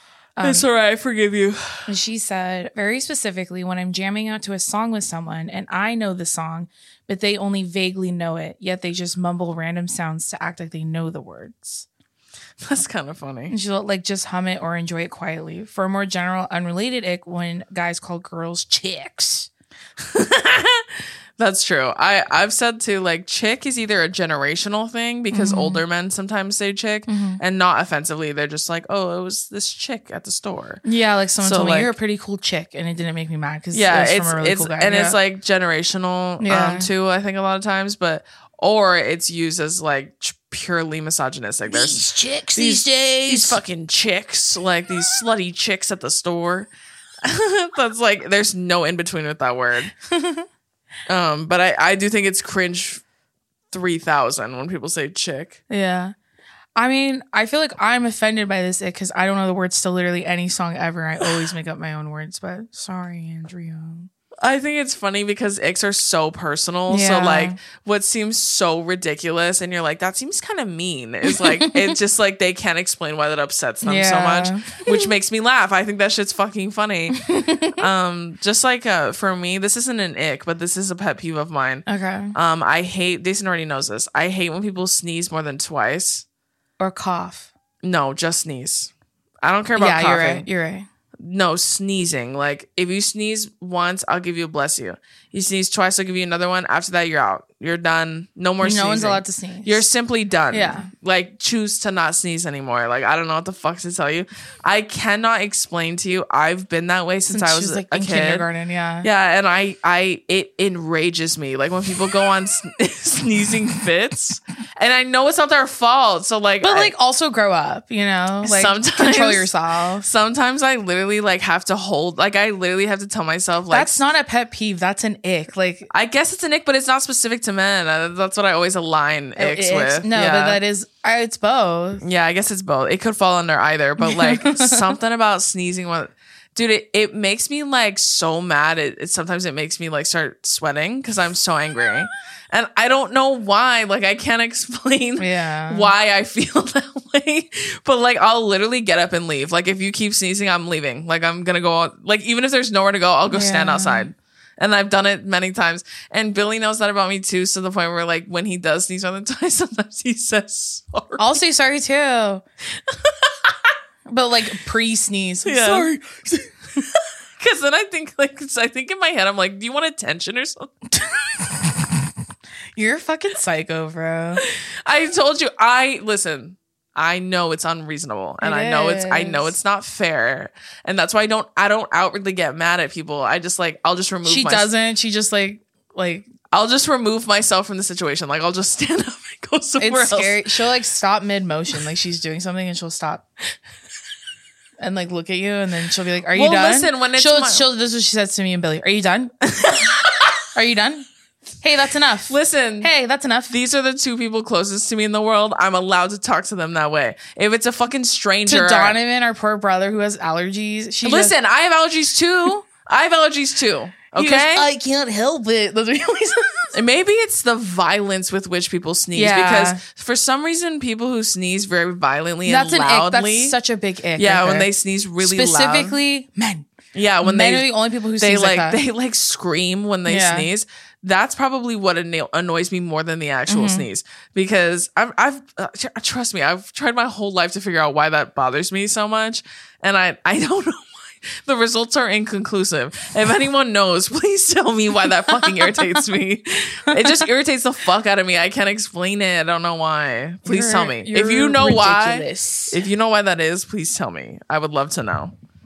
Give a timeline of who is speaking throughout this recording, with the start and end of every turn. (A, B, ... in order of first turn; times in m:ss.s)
0:00.4-0:00.6 A
0:00.4-0:01.9 B
0:01.9-0:11.9 A
0:12.6-0:13.6 B
0:13.5-0:19.5 A
0:20.0-0:20.9 B
0:21.4-0:30.8 B
0:25.3-0:25.8 A
0:27.1-0:27.4 A
0:30.8-0:35.2 A
0:31.4-0:31.9 B
0:33.7-0:46.7 B
0:36.4-0:36.9 A
0:41.7-0:43.6 A
0:47.2-0:49.9 B
0:50.1-0:50.5 A
0:51.1-0:53.0 B
0:53.7-0:55.6 B
0:55.7-0:56.1 A
0:56.8-1:04.1 A
1:04.4-1:26.2 B
1:06.9-1:07.6 A
1:11.2-1:12.0 A
1:13.8-1:15.1 A
1:17.1-1:17.8 A
1:21.9-1:22.4 A
1:26.8-1:27.5 A
1:27.8-1:28.9 B
1:29.4-1:30.5 B
1:29.8-1:30.9 A
1:31.2-1:48.5 B
1:38.6-1:39.9 A
1:40.5-1:40.9 A
1:47.3-1:49.1 A
1:49.0-1:56.9 B
1:56.6-2:00.1 A
1:58.4-1:59.5 B
2:00.0-2:04.0 B
2:03.7-2:05.9 A
2:05.9-2:10.6 B
2:09.4-2:12.0 A
2:12.0-2:41.3 B
2:14.0-2:14.9 A
2:25.2-2:25.9 A
2:33.3-2:34.1 A
2:41.2-2:42.4 A
2:42.9-2:43.5 B
2:44.1-2:46.5 A
2:45.4-2:45.9 B
2:47.0-2:50.7 B
2:51.0-2:52.0 A
2:52.8-2:54.4 A
2:54.4-3:04.7 B
2:58.4-2:59.6 A
3:04.2-3:06.3 A
3:06.5-3:10.4 B
3:09.8-3:13.3 A
3:14.8-3:19.3 A
3:16.3-3:17.6 B
3:19.5-3:20.4 B
3:20.6-3:21.1 A
3:21.6-3:23.5 A
3:22.3-3:22.9 B
3:23.5-3:29.0 B
3:28.5-3:31.3 A
3:31.0-3:34.7 B
3:34.2-3:36.8 A
3:36.7-3:43.6 B
3:39.1-3:39.8 A
3:42.4-3:46.7 A
3:44.2-3:46.0 B
3:46.9-3:47.7 B
3:47.2-3:48.8 A
3:48.2-4:15.3 B
3:50.1-3:50.5 A
3:53.5-3:53.9 A
4:10.5-4:12.8 A